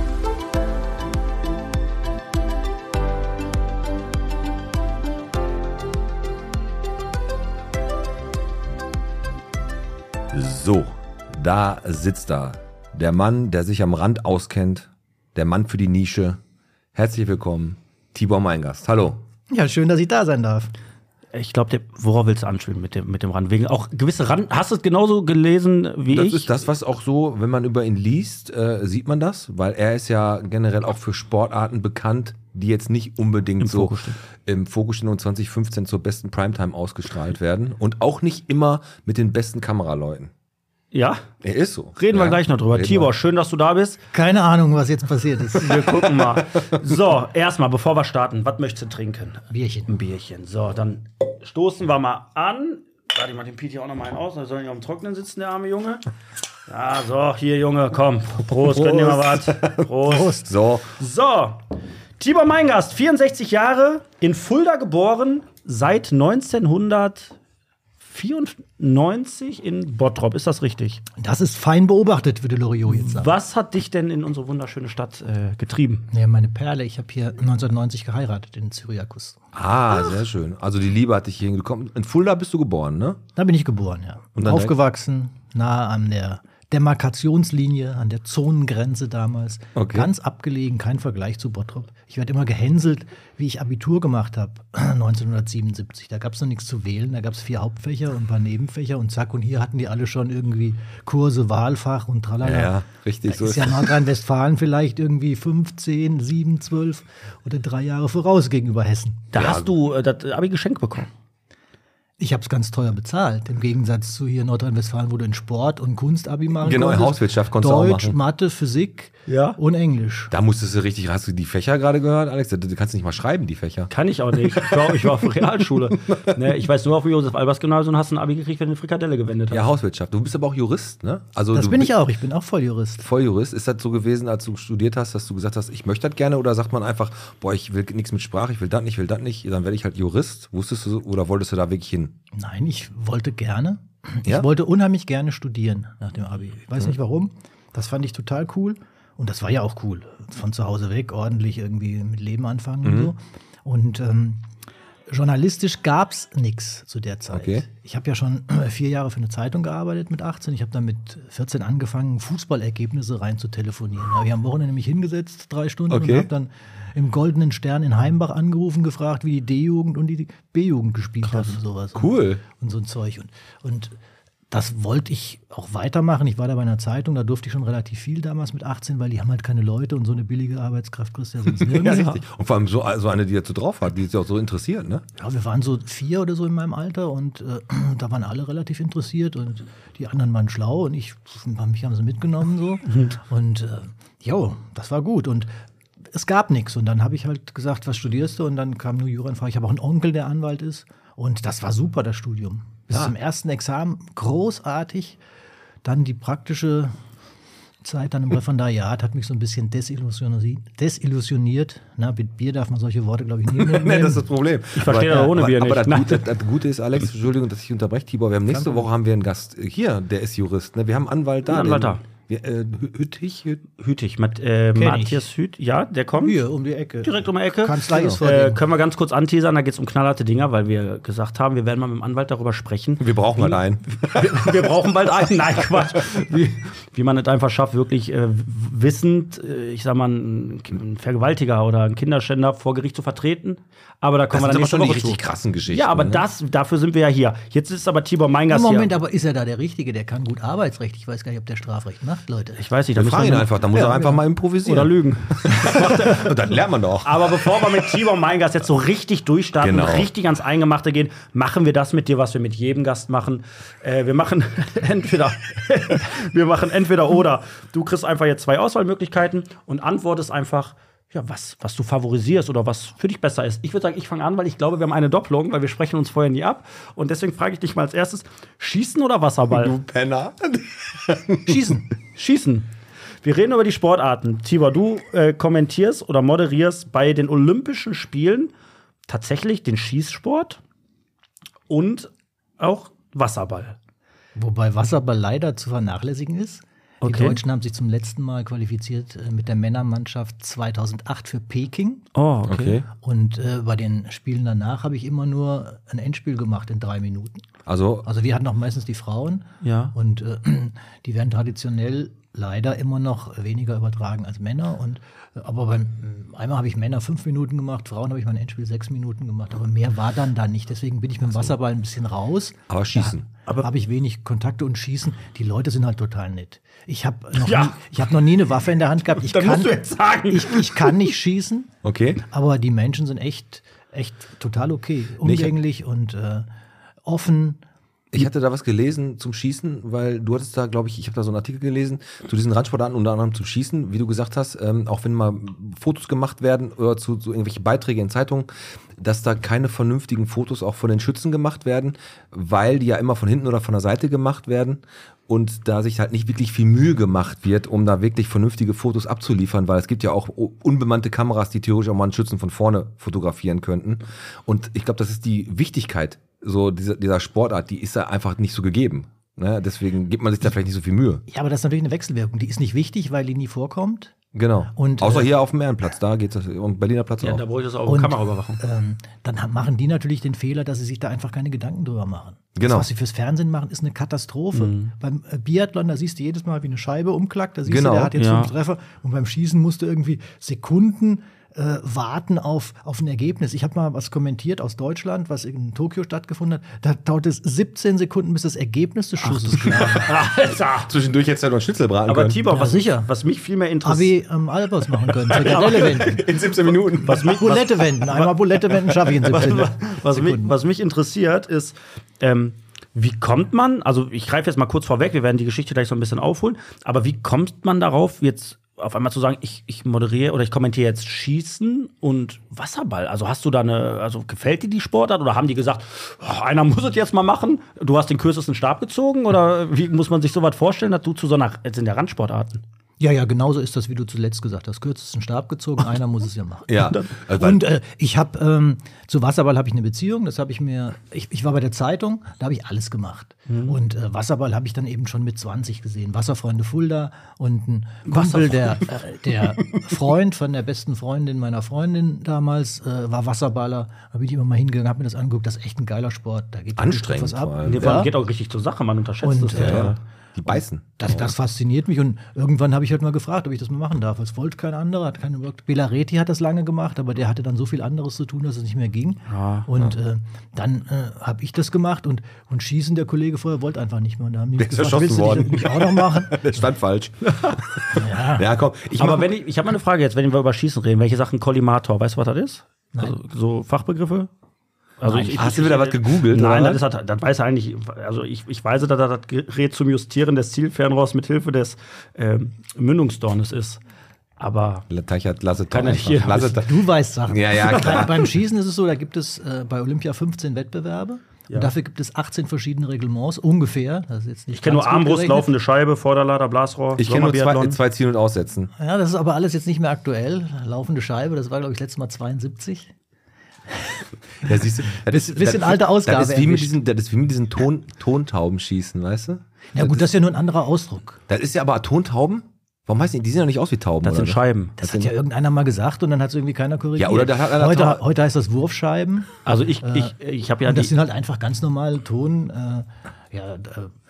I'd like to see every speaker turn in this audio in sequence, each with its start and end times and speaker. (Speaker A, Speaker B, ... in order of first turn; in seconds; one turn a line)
Speaker A: 10.3-16.4
Speaker A: 16.9-19.2
Speaker B: 19.5-20.7
Speaker C: 21.3-26.5
Speaker A: 26.1-40.3
Speaker C: 33.6-34.2
Speaker C: 40.9-41.2
Speaker A: 41.4-43.1
Speaker C: 42.0-44.0
Speaker B: 44.1-46.1
Speaker C: 45.5-56.0
Speaker B: 49.5-49.9
Speaker C: 56.7-60.4
Speaker A: 58.6-60.9
Speaker C: 61.0-61.6
Speaker C: 62.2-67.3
Speaker C: 68.1-71.0
Speaker B: 71.2-73.3
Speaker C: 72.9-76.1
Speaker B: 76.1-79.4
Speaker A: 79.5-83.2
Speaker B: 83.3-102.7
Speaker A: 84.4-84.7
Speaker A: 89.8-90.1
Speaker A: 102.4-104.0
Speaker B: 103.3-109.3
Speaker C: 109.3-111.1
Speaker A: 109.3-109.7
Speaker B: 112.2-120.3
Speaker A: 116.6-118.2
Speaker C: 119.3-119.6
Speaker A: 120.3-125.3
Speaker C: 123.9-129.7
Speaker A: 126.1-126.4
Speaker A: 129.5-131.9
Speaker B: 131.5-133.0
Speaker A: 133.0-142.1
Speaker B: 142.3-154.4
Speaker A: 152.8-153.1
Speaker B: 155.1-173.9
Speaker A: 157.3-157.6
Speaker A: 165.9-166.3
Speaker A: 171.3-172.4
Speaker B: 174.5-182.2
Speaker A: 181.5-185.0
Speaker B: 185.2-195.5
Speaker B: 196.1-205.2
Speaker B: 205.8-206.9
Speaker B: 207.8-214.2
Speaker A: 213.5-223.6
Speaker C: 214.7-216.3
Speaker B: 218.5-218.8
Speaker C: 221.4-222.0
Speaker C: 223.8-226.4
Speaker B: 224.8-225.3
Speaker B: 226.2-228.6
Speaker C: 227.0-248.9
Speaker A: 227.9-228.2
Speaker A: 233.0-234.6
Speaker A: 244.3-246.2
Speaker B: 248.5-252.7
Speaker C: 252.6-253.8
Speaker A: 252.9-257.8
Speaker B: 253.7-254.2
Speaker C: 254.6-256.3
Speaker C: 257.0-279.8
Speaker A: 259.6-260.1
Speaker A: 279.5-281.6
Speaker B: 281.5-281.8
Speaker C: 282.1-282.7
Speaker C: 283.2-288.5
Speaker C: 289.1-290.6
Speaker C: 291.7-293.8
Speaker B: 294.4-302.1
Speaker C: 297.0-297.4
Speaker C: 302.1-302.8
Speaker A: 302.5-302.9
Speaker B: 302.9-307.4
Speaker A: 307.6-308.1
Speaker B: 308.0-331.7
Speaker C: 309.6-309.9
Speaker A: 321.3-321.5
Speaker A: 322.7-323.3
Speaker C: 327.3-327.8
Speaker C: 329.1-331.0
Speaker A: 331.8-332.2
Speaker B: 332.2-336.5
Speaker A: 335.2-335.6
Speaker B: 337.0-337.6
Speaker A: 338.1-371.2
Speaker B: 371.3-374.1
Speaker A: 374.3-377.4
Speaker B: 374.7-375.3
Speaker C: 377.2-378.6
Speaker B: 377.9-400.2
Speaker A: 382.6-382.9
Speaker C: 384.5-384.9
Speaker A: 387.6-388.1
Speaker C: 388.1-388.5
Speaker C: 399.2-400.9
Speaker A: 400.8-402.4
Speaker C: 402.1-404.1
Speaker B: 402.5-403.1
Speaker B: 403.8-406.3
Speaker A: 405.3-407.4
Speaker C: 405.3-406.0
Speaker C: 407.0-408.3
Speaker B: 407.2-410.5
Speaker C: 409.1-432.6
Speaker B: 433.0-458.1
Speaker A: 436.7-437.7
Speaker C: 443.5-443.8
Speaker C: 448.1-448.9
Speaker A: 456.8-458.1
Speaker C: 457.6-460.0
Speaker B: 459.2-476.6
Speaker A: 459.5-461.3
Speaker C: 469.3-469.7
Speaker A: 474.6-479.3
Speaker B: 477.9-478.5
Speaker C: 479.0-484.3
Speaker C: 485.0-493.8
Speaker B: 485.1-485.5
Speaker A: 485.3-486.8
Speaker C: 494.4-494.9
Speaker A: 494.9-498.3
Speaker C: 495.7-496.6
Speaker B: 496.5-505.5
Speaker C: 504.5-507.8
Speaker A: 507.0-508.7
Speaker B: 508.8-512.9
Speaker B: 513.7-514.5
Speaker A: 514.4-520.1
Speaker B: 515.0-516.7
Speaker B: 519.7-521.2
Speaker A: 521.3-525.1
Speaker C: 524.0-524.8
Speaker B: 524.8-530.1
Speaker A: 527.0-528.0
Speaker C: 529.4-530.9
Speaker B: 530.6-533.9